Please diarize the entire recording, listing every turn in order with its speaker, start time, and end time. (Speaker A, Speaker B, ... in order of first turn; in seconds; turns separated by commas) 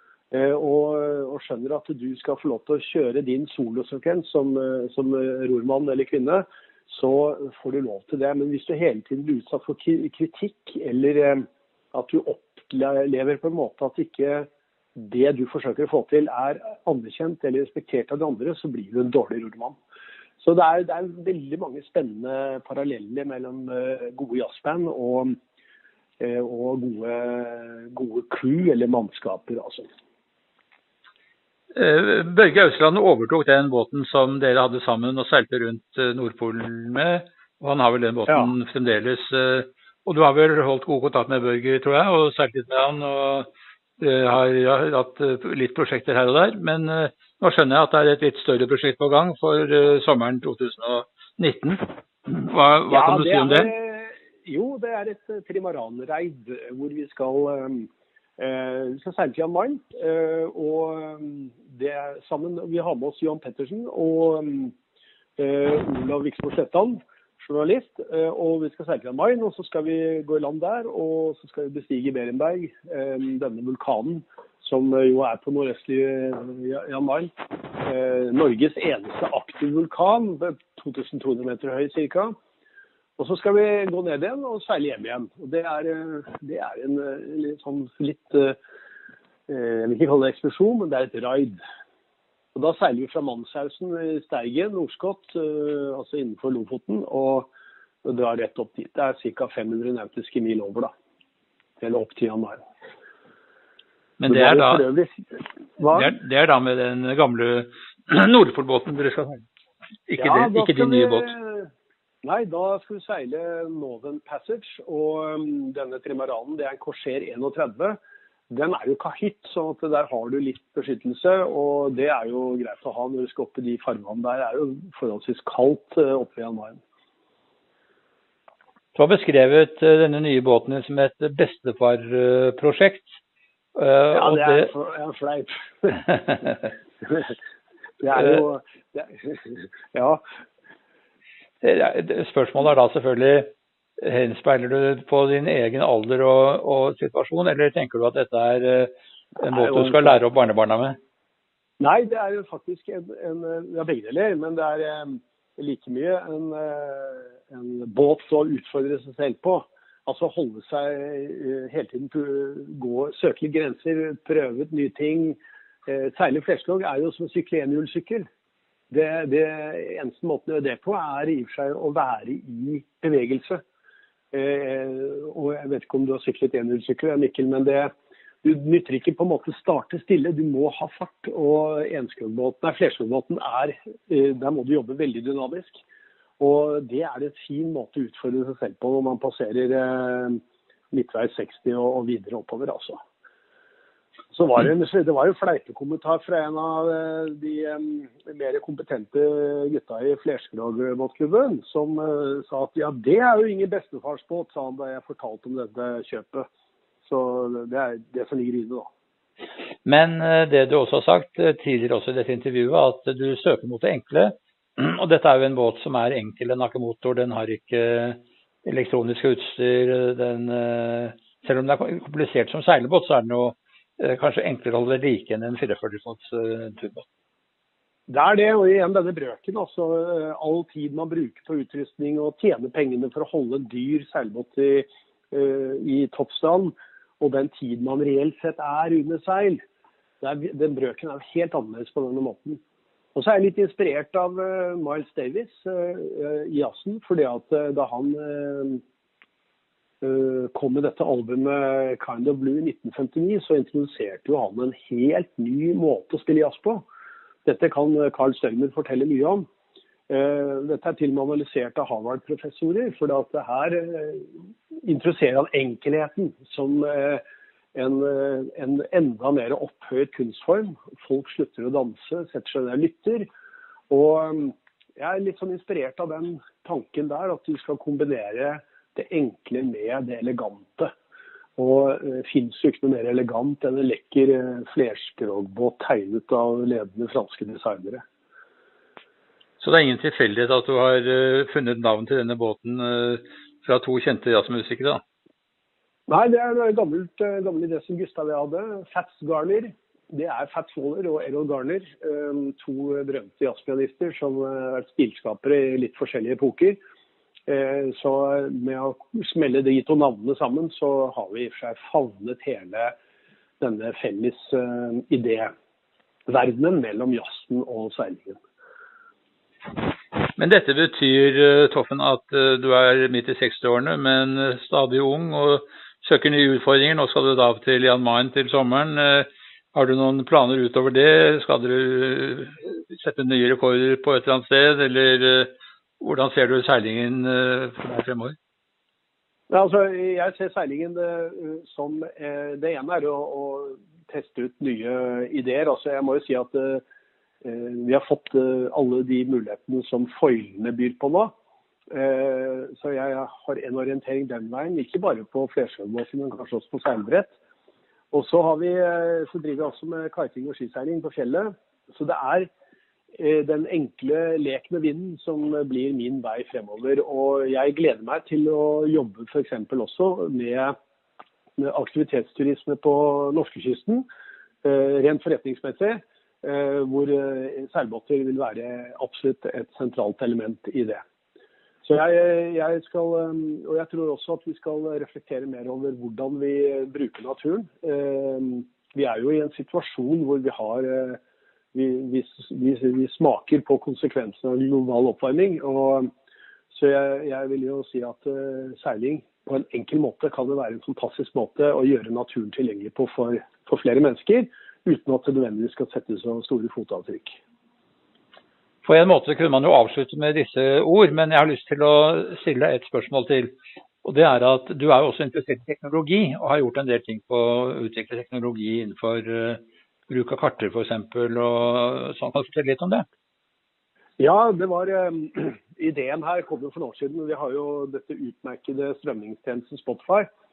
Speaker A: 0.3-19.8, Speaker A: 20.4-25.4, Speaker A: 26.2-29.9, Speaker B: 31.7-43.5, Speaker A: 38.3-38.5, Speaker B: 44.0-53.7, Speaker A: 52.9-64.7, Speaker A: 65.4-82.3, Speaker A: 83.2-88.6, Speaker A: 89.5-91.6, Speaker A: 92.5-97.5, Speaker A: 98.0-100.9, Speaker A: 101.8-102.6, Speaker B: 104.2-104.8, Speaker A: 104.3-106.1, Speaker B: 105.9-109.5, Speaker B: 110.1-111.3, Speaker A: 110.2-111.7, Speaker A: 112.2-118.0, Speaker A: 118.5-126.8, Speaker B: 128.9-133.1, Speaker B: 133.8-134.7, Speaker A: 134.1-136.1, Speaker A: 137.0-137.3, Speaker A: 138.0-140.2, Speaker B: 141.6-151.0, Speaker A: 149.5-150.2, Speaker A: 151.8-168.3, Speaker A: 168.9-173.6, Speaker A: 174.3-177.9, Speaker A: 178.4-185.8, Speaker A: 186.4-190.4, Speaker A: 190.9-193.0, Speaker A: 194.3-206.5, Speaker A: 207.0-208.9, Speaker B: 209.8-227.0, Speaker A: 228.1-239.6, Speaker A: 240.2-242.6, Speaker A: 243.1-248.8, Speaker A: 250.0-256.8, Speaker A: 257.4-259.4, Speaker A: 260.1-267.2, Speaker A: 267.7-273.3, Speaker A: 273.9-280.9, Speaker A: 281.6-288.0, Speaker B: 289.6-295.0, Speaker A: 296.1-306.8, Speaker A: 307.5-312.9, Speaker A: 313.6-315.5, Speaker A: 316.3-318.4, Speaker B: 320.4-338.4, Speaker A: 339.5-346.8, Speaker A: 347.4-351.3, Speaker A: 351.9-357.4, Speaker A: 358.1-362.5, Speaker A: 363.2-370.7, Speaker A: 371.6-374.0, Speaker A: 374.6-381.0, Speaker A: 381.8-391.2, Speaker A: 391.7-396.1, Speaker A: 396.7-407.4, Speaker B: 408.8-423.0, Speaker A: 424.2-430.3